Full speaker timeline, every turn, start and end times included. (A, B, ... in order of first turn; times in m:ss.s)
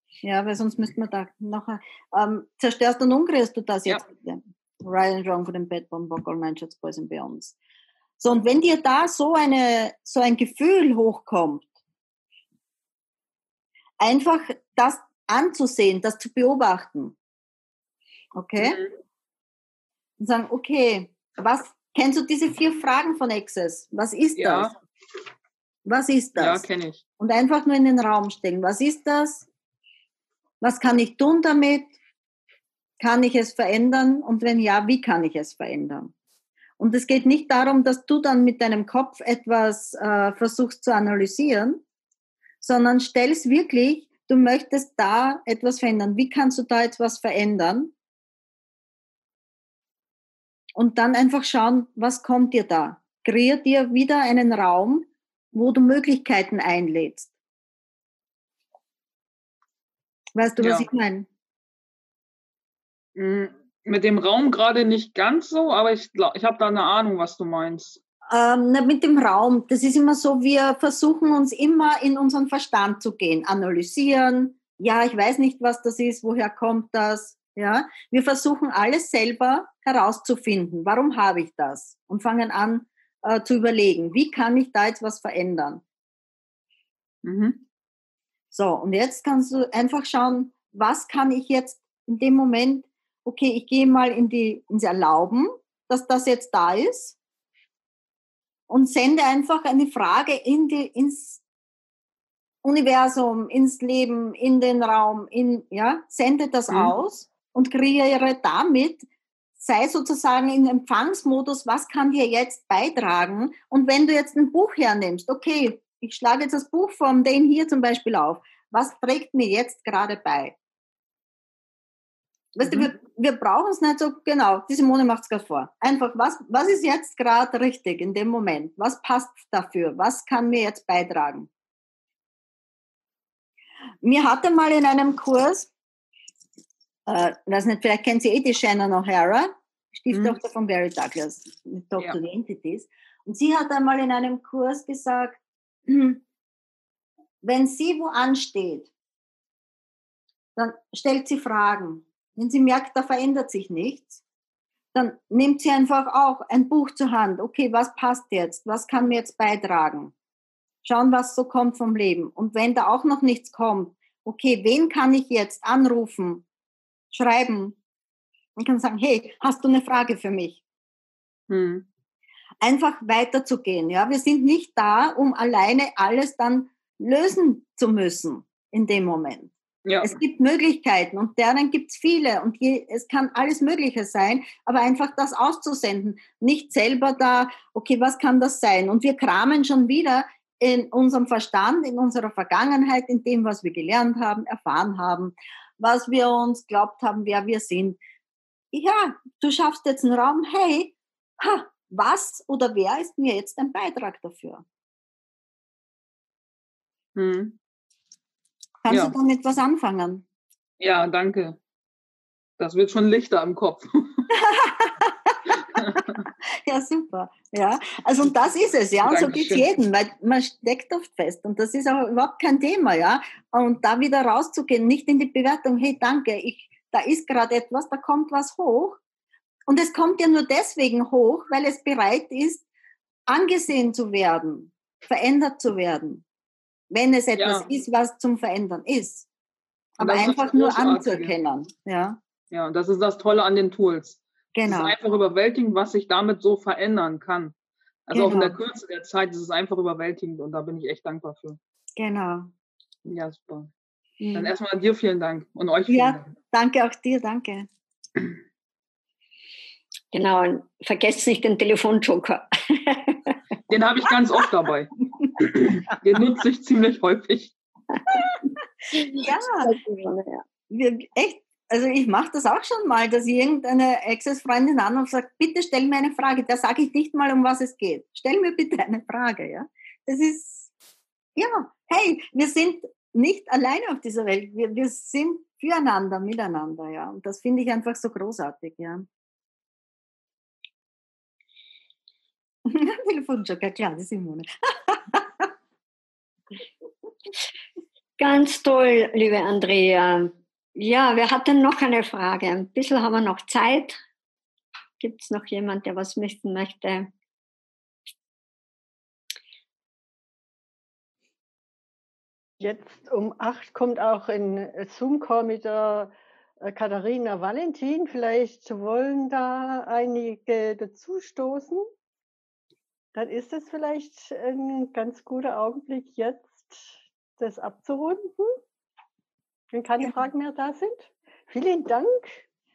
0:00.2-0:07.5 A
0:08.2-0:11.6 A
0:14.0-0:17.2 A
0:18.3-0:18.8 A
0:18.6-0:18.9 B
0:20.2-0:24.7 A
0:24.4-0:24.7 B
0:25.8-0:26.6 A
0:26.4-0:27.0 B
0:27.2-0:29.5 A
0:30.6-0:31.9 A
0:33.0-0:36.1 A
0:36.8-0:41.8 A
0:42.6-0:47.9 A
0:50.8-0:57.3 A
1:00.3-1:01.3 A
1:00.6-1:00.9 B
1:03.2-1:08.0 B
1:08.3-1:25.8 A
1:27.2-1:27.6 B
1:28.5-1:37.1 A
1:38.7-1:41.4 A
1:42.6-1:49.0 A
1:49.6-2:00.5 A
2:02.5-2:11.5 A
2:14.0-2:15.7 A
2:17.1-2:26.2 A
2:20.1-2:20.4 B
2:27.4-2:28.9 A
2:30.6-2:34.2 A
2:34.9-2:40.1 A
2:40.8-2:46.4 A
2:47.1-2:47.8 A
2:48.6-2:50.6 A
2:51.5-2:51.8 B
2:52.6-3:18.0 A
2:59.8-3:00.1 B
3:18.7-3:24.6 A
3:27.2-3:27.6 B
3:28.8-3:30.2 A
3:28.9-3:29.1 B
3:30.8-3:31.6 B
3:32.6-3:33.9 B
3:34.3-3:36.0 A
3:35.8-3:36.0 B
3:36.6-3:49.0 A
3:39.0-3:39.6 B
3:49.7-3:52.6 A
3:53.3-3:56.2 A
3:56.9-3:59.2 A
3:57.3-3:57.7 B
4:00.0-4:02.2 A
4:00.0-4:01.3 B
4:02.5-4:07.5 B
4:04.5-4:05.0 A
4:08.1-4:11.6 B
4:08.1-4:08.6 A
4:12.0-4:12.5 A
4:13.0-4:13.7 B
4:14.3-4:16.3 B
4:15.9-4:17.7 A
4:20.1-4:23.3 C
4:23.7-4:27.5 B
4:28.9-4:30.4 C
4:29.2-4:29.7 A
4:30.7-4:40.7 A
4:41.4-4:49.1 A
4:52.6-4:55.4 A
4:58.2-5:04.0 C
5:05.0-5:07.1 C
5:12.6-5:21.8 D
5:23.1-5:28.6 D
5:29.7-5:32.4 D